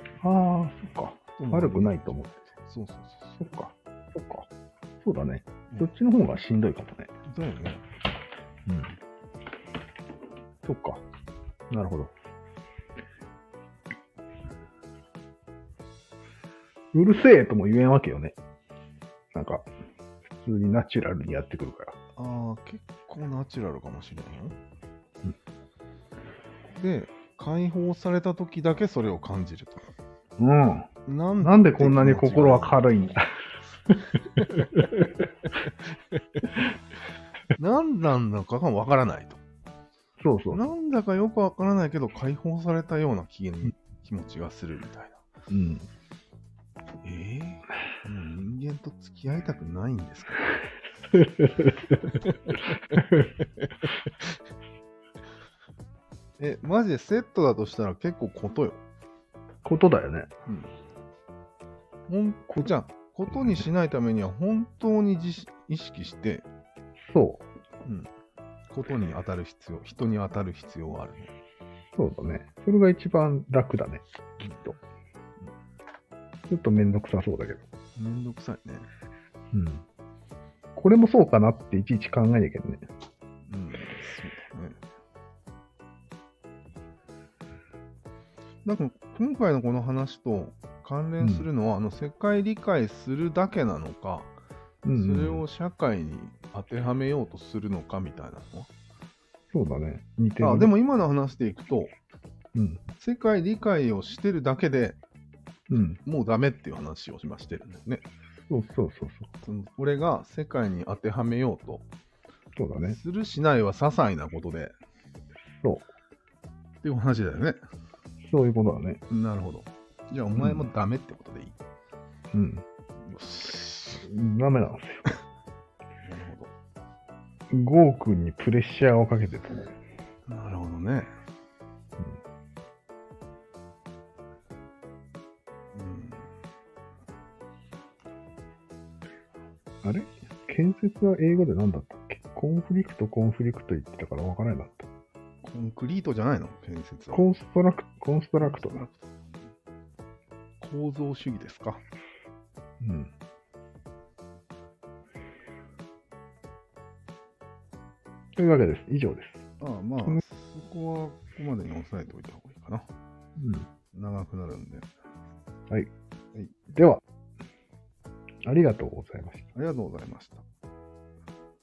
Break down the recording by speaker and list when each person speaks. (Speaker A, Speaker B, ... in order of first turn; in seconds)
Speaker A: 0.2-2.4, 3.4-4.5, 5.0-7.1, 8.7-8.9, 10.6-11.0, 11.7-12.1, 16.9-18.4, 19.3-19.7, 20.4-22.0, 30.4-30.9, 31.4-33.2, 40.2-40.6, 45.5-45.9, 51.1-51.9, 59.6-60.3, 67.1-67.5, 72.0-74.0, 76.5-77.7, 79.5-79.8, 80.8-82.8, 91.2-91.5, 94.8-95.4, 99.5-100.7, 102.5-102.8, 105.7-106.0, 108.5-109.3, 112.6-113.0, 118.2-119.0, 120.4-120.7, 122.3-122.6, 124.0-125.1, 127.5-129.7, 139.8-144.9, 147.1-148.8, 152.8-153.1, 158.4-159.4, 163.4-163.7, 166.7-167.0, 168.4-169.5
Speaker B: 1.4-3.4, 7.3-7.8, 22.2-24.6, 26.8-29.9, 31.1-32.8, 37.6-39.4, 40.5-45.2, 47.0-50.4, 56.4-58.8, 60.5-60.7, 62.1-66.5, 68.7-71.3, 74.4-74.8, 78.0-78.9, 83.5-84.8, 88.7-94.3, 94.9-98.7, 100.4-101.9, 103.0-105.0, 106.0-108.0, 109.4-111.8, 112.8-114.8, 116.8-117.6, 119.1-121.6, 123.0-124.1, 126.0-126.5, 130.3-131.1, 135.7-136.3, 145.4-147.3, 148.4-149.1, 150.6-151.8, 159.6-162.9, 163.9-164.9, 169.5-170.4